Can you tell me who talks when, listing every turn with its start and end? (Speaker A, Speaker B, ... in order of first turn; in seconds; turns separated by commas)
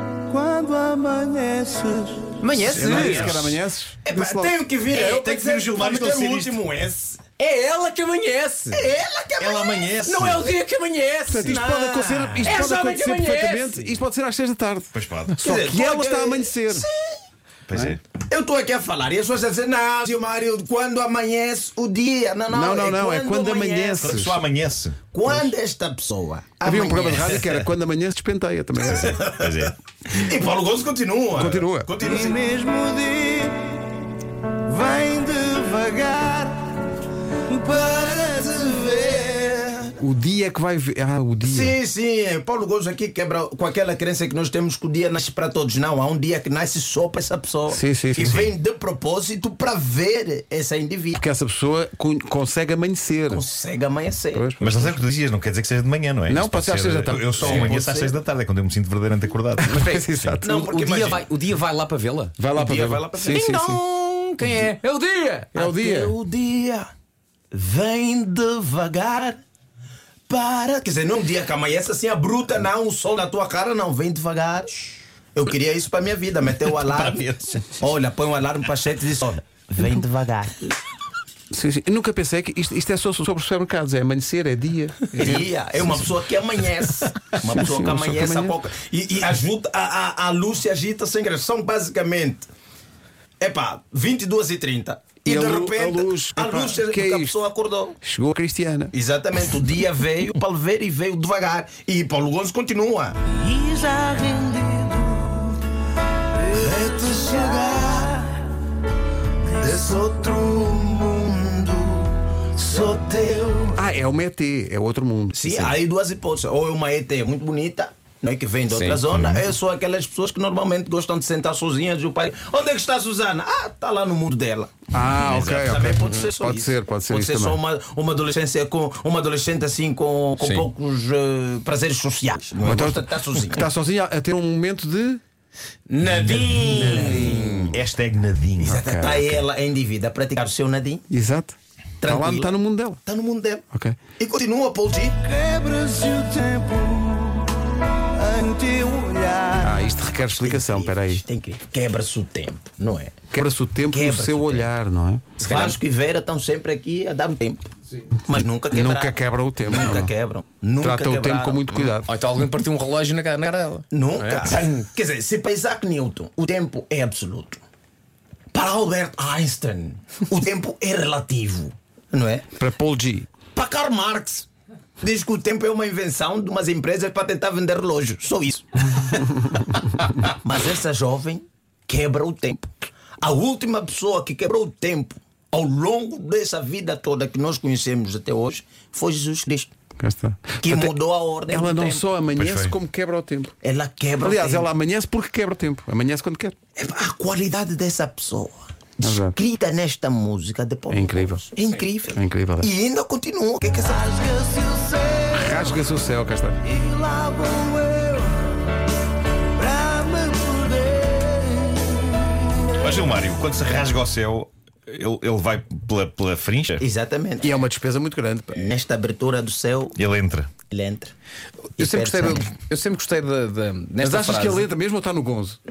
Speaker A: 0.3-2.3, Speaker B: 2.4-3.5, Speaker C: 2.6-4.5, Speaker D: 2.7-3.6, Speaker E: 4.1-7.2, Speaker D: 4.9-6.7, Speaker B: 7.4-8.9, Speaker E: 8.7-10.1, Speaker D: 9.4-10.5, Speaker B: 10.0-11.6, Speaker C: 11.3-16.9, Speaker E: 11.4-12.7, Speaker B: 12.4-13.9, Speaker D: 14.9-15.4, Speaker E: 15.4-17.2, Speaker D: 17.7-18.0, Speaker E: 18.3-24.4, Speaker C: 22.5-24.4, Speaker D: 24.0-25.0, Speaker E: 25.1-27.6, Speaker C: 26.6-29.2, Speaker E: 28.9-29.5, Speaker D: 29.2-29.8, Speaker E: 30.1-32.6, Speaker C: 31.3-31.9, Speaker A: 32.1-33.7, Speaker A: 34.7-36.5, Speaker E: 35.2-36.3, Speaker E: 37.5-40.0, Speaker A: 37.6-39.0, Speaker C: 40.0-41.8, Speaker E: 41.4-51.2, Speaker C: 47.7-48.4, Speaker C: 51.1-53.4, Speaker E: 53.3-54.5, Speaker C: 54.3-55.0, Speaker D: 54.6-59.8, Speaker C: 56.3-57.7, Speaker E: 57.3-58.2, Speaker C: 59.6-60.5, Speaker B: 59.7-62.4, Speaker E: 60.4-61.3, Speaker C: 62.4-63.8, Speaker E: 62.5-63.7, Speaker B: 63.3-65.7, Speaker C: 65.5-66.1, Speaker E: 65.6-66.9, Speaker E: 67.5-69.4, Speaker E: 70.3-80.8, Speaker D: 76.9-77.6, Speaker C: 81.5-86.0, Speaker E: 85.1-92.5, Speaker C: 87.5-88.5, Speaker E: 93.4-98.0, Speaker C: 95.2-97.4, Speaker C: 98.0-98.9, Speaker E: 98.9-105.5, Speaker E: 106.4-108.4, Speaker E: 109.4-113.9, Speaker C: 113.8-115.8, Speaker E: 115.3-133.7, Speaker B: 118.7-119.0, Speaker D: 119.1-119.5, Speaker C: 124.9-127.6, Speaker B: 130.4-130.7, Speaker C: 132.6-135.2, Speaker B: 135.9-137.7, Speaker D: 136.1-136.9, Speaker E: 136.2-137.8, Speaker C: 136.7-137.7, Speaker D: 137.7-138.8, Speaker E: 138.6-141.1, Speaker C: 138.6-139.4, Speaker C: 141.1-143.0, Speaker E: 142.0-142.5, Speaker E: 143.1-143.7, Speaker C: 143.7-144.0, Speaker E: 144.2-145.3, Speaker A: 145.3-147.5, Speaker A: 148.2-149.6, Speaker C: 149.6-151.2, Speaker E: 150.3-153.2, Speaker C: 153.3-155.2, Speaker E: 153.9-154.7, Speaker B: 155.4-155.8, Speaker E: 155.4-157.6, Speaker E: 158.3-161.9, Speaker C: 158.7-160.1, Speaker C: 160.8-162.1, Speaker B: 162.1-164.7, Speaker E: 163.9-167.6, Speaker E: 168.5-172.5, Speaker C: 172.6-173.3, Speaker E: 173.6-174.5, Speaker E: 175.0-179.5, Speaker E: 180.0-182.7, Speaker E: 183.2-189.7, Speaker C: 190.0-190.9, Speaker E: 190.6-192.1, Speaker C: 191.5-193.5, Speaker D: 192.3-192.8, Speaker E: 193.6-194.7, Speaker C: 194.2-196.6, Speaker E: 196.8-204.6, Speaker C: 199.0-199.4, Speaker C: 200.9-201.4, Speaker C: 202.1-202.7, Speaker A: 204.0-205.5, Speaker C: 205.3-206.6, Speaker A: 206.7-208.3, Speaker A: 209.6-212.0, Speaker D: 212.8-216.8, Speaker E: 216.8-217.6, Speaker C: 217.4-218.7, Speaker E: 218.5-220.0, Speaker D: 220.0-220.5, Speaker E: 220.7-221.1, Speaker E: 221.8-222.5, Speaker B: 221.8-224.7, Speaker C: 224.0-225.6